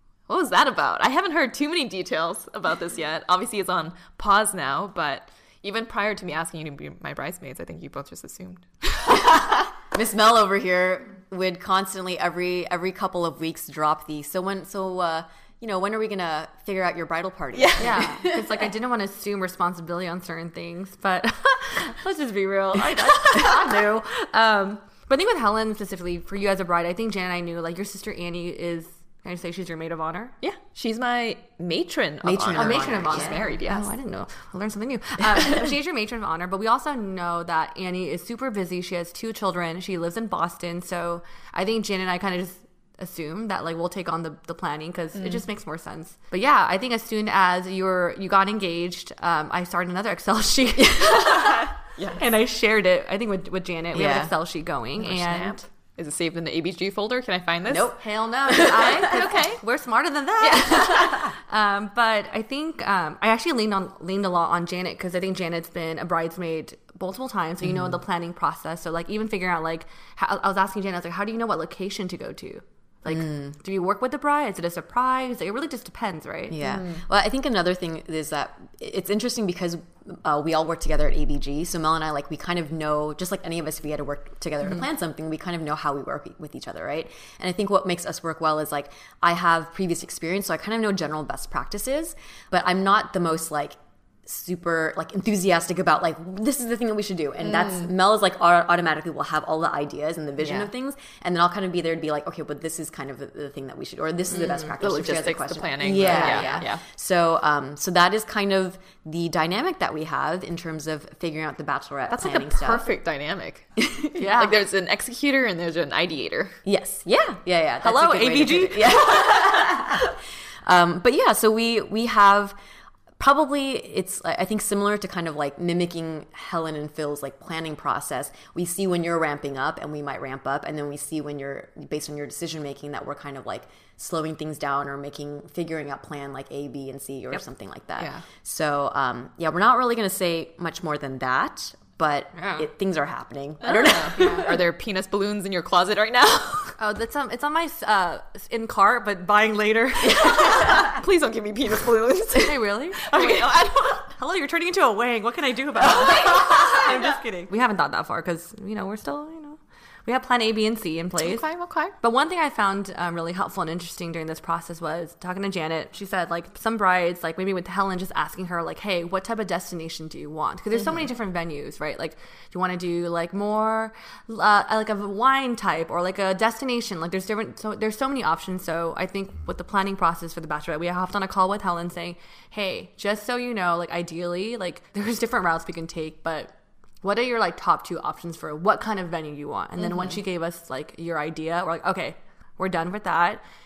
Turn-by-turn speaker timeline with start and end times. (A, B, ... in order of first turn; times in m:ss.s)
0:00.3-0:09.4 A
0:09.1-0:18.7 B
0:17.5-0:18.0 A
0:17.8-0:30.3 C
0:30.4-0:33.9 A
0:32.2-0:33.4 B
0:32.5-0:55.6 C
0:45.1-0:45.4 A
0:51.0-0:51.5 B
0:51.8-0:52.2 A
0:53.9-0:54.3 B
0:55.0-0:57.9 A
0:57.7-0:59.2 B
0:58.0-1:16.6 C
0:58.6-0:59.6 A
1:00.4-1:01.2 A
1:07.6-1:08.0 B
1:13.1-1:13.6 B
1:16.5-1:52.9 B
1:16.6-1:17.0 A
1:37.4-1:37.9 A
1:40.4-1:40.7 A
1:44.3-1:44.7 C
1:44.8-1:46.8 A
1:46.0-1:46.8 C
1:52.1-1:56.6 A
1:53.8-1:54.2 B
1:54.1-1:54.5 C
1:56.6-2:02.6 B
1:57.8-1:59.7 C
2:03.2-2:24.6 B
2:18.0-2:18.2 A
2:22.4-2:22.6 A
2:23.6-2:26.7 A
2:24.2-2:24.5 C
2:26.8-2:30.8 C
2:30.1-2:34.1 A
2:32.4-2:41.4 C
2:35.8-2:37.0 A
2:41.2-2:41.9 A
2:42.0-3:13.4 C
3:09.8-3:10.2 A